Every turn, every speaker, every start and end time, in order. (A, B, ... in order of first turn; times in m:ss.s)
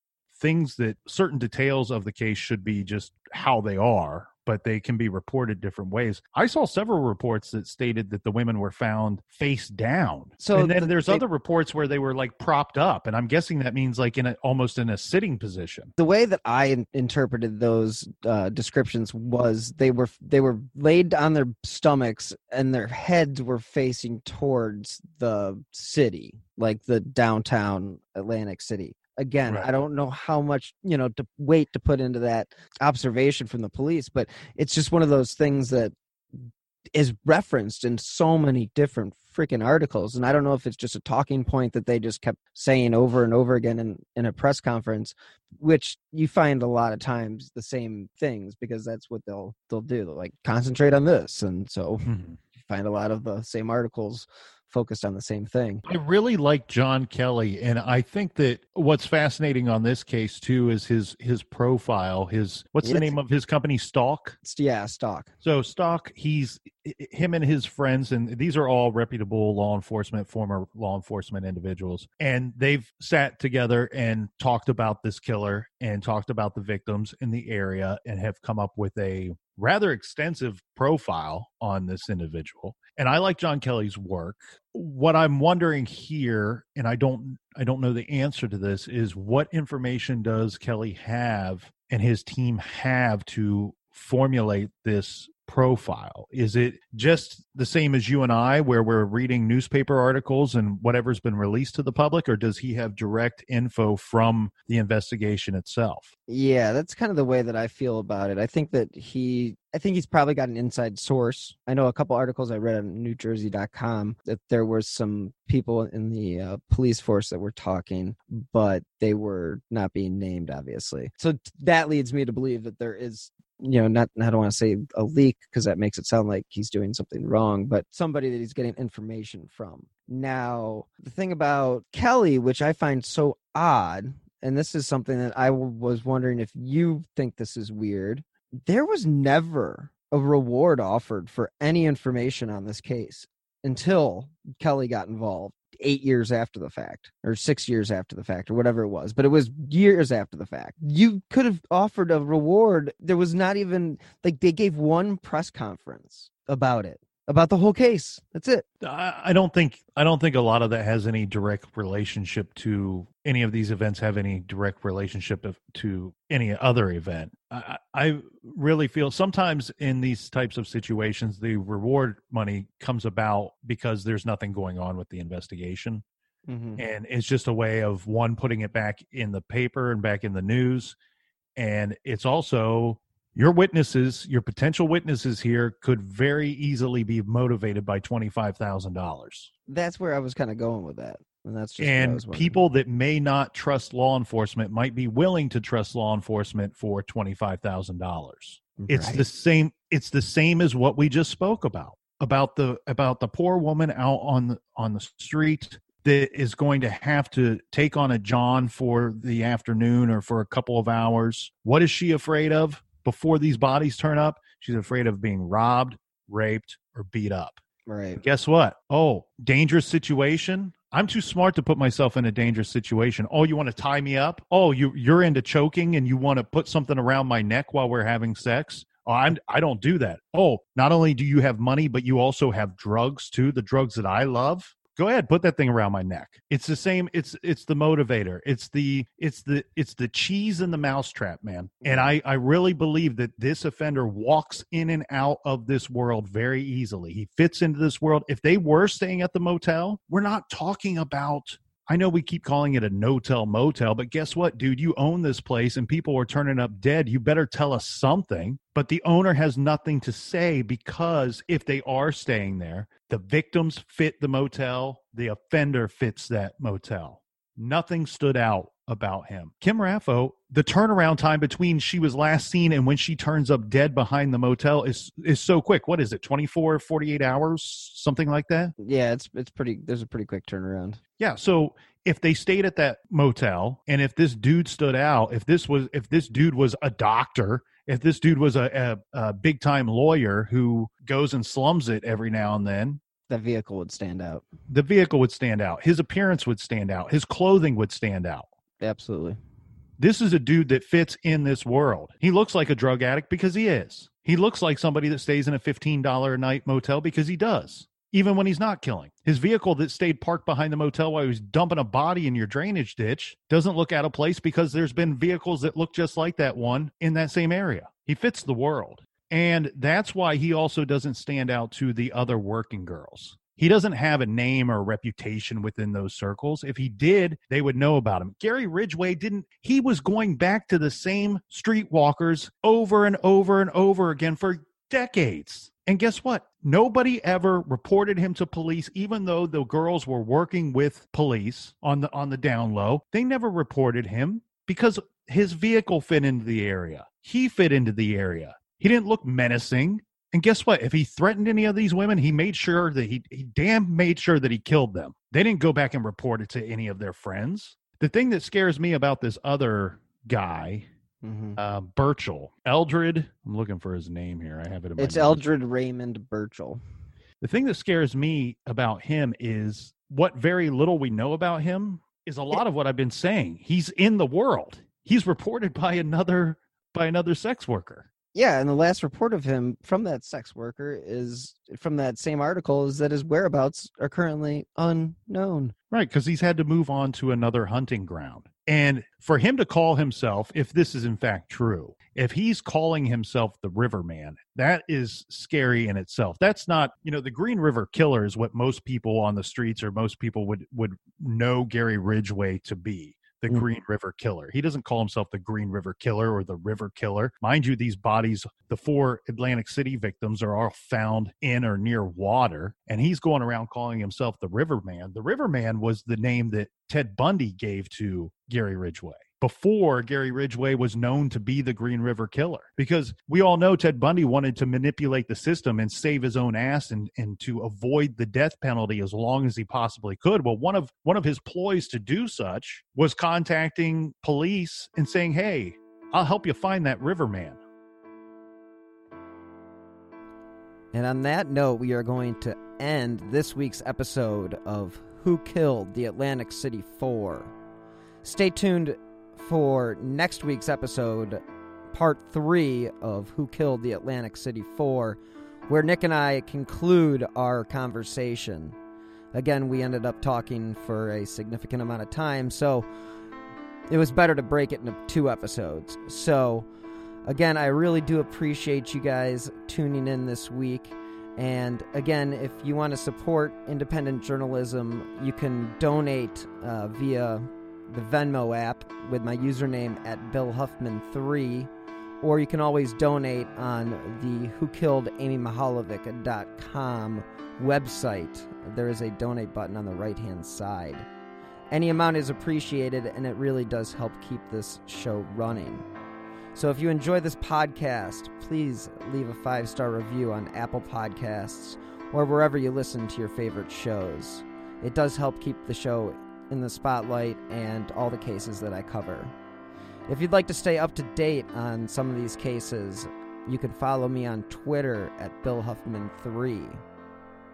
0:00.3-0:15.9 A
0:10.4-0:11.2 B
0:16.0-0:55.8 B
0:52.0-0:52.4 A
0:55.8-1:04.4 A
1:02.8-1:03.1 B
1:04.4-1:05.3 B
1:05.4-1:46.1 A
1:46.3-2:38.6 B
2:38.8-2:56.0 A
2:56.5-2:56.8 B
2:56.8-3:01.0 A
3:01.6-3:09.5 A
3:09.7-3:12.6 B
3:11.8-3:37.6 A
3:18.8-3:19.2 B
3:37.9-3:38.2 B
3:38.2-4:38.7 A
4:01.8-4:02.1 B
4:38.8-4:41.0 B
4:41.2-4:53.0 A
4:53.3-4:54.4 B
4:54.7-4:58.5 A
4:58.8-4:59.4 B
5:00.0-6:00.9 A
6:01.2-6:01.6 B
6:01.6-6:05.4 A
6:05.0-6:06.8 B
6:07.4-6:18.1 A
6:18.3-6:25.7 B
6:25.9-7:17.6 A
7:20.9-7:27.5 B
7:28.2-7:38.8 B
7:39.3-7:42.8 B
7:43.9-7:46.7 B
7:47.2-8:01.7 B
8:02.2-8:11.1 B
8:11.7-8:15.8 B
8:16.5-8:29.3 B
8:30.1-8:36.8 B